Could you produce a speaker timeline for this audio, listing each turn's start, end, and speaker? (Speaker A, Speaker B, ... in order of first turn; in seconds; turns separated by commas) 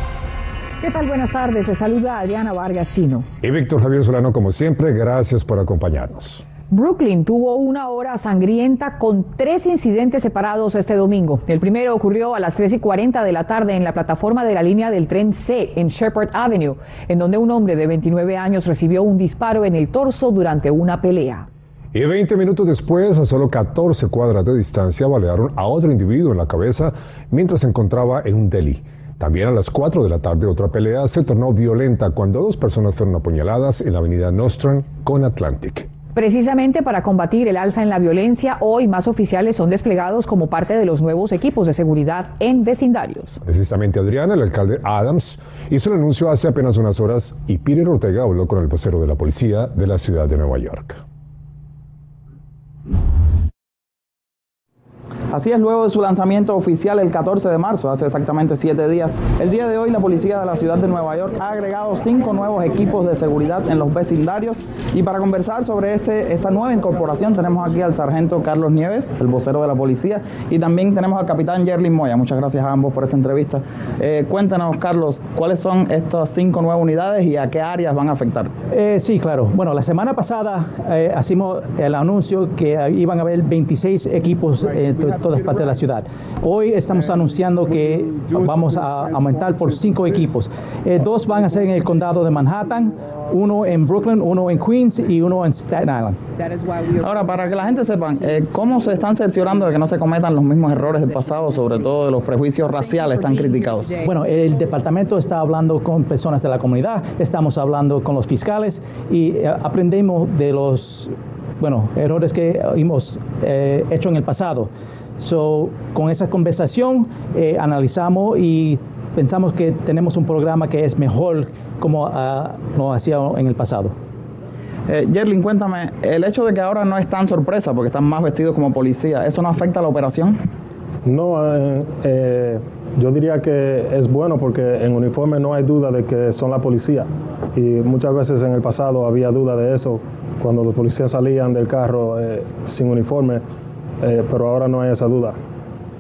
Speaker A: 0.8-3.3, Speaker B: 3.4-6.5, Speaker A: 6.7-21.5, Speaker B: 21.9-35.9, Speaker A: 36.1-43.4, Speaker B: 43.5-51.0, Speaker C: 55.3-78.5, Speaker D: 78.7-96.2, Speaker C: 96.9-104.0, Speaker D: 104.0-123.9, Speaker C: 124.9-130.4, Speaker E: 131.1-143.4, Speaker E: 144.0-145.4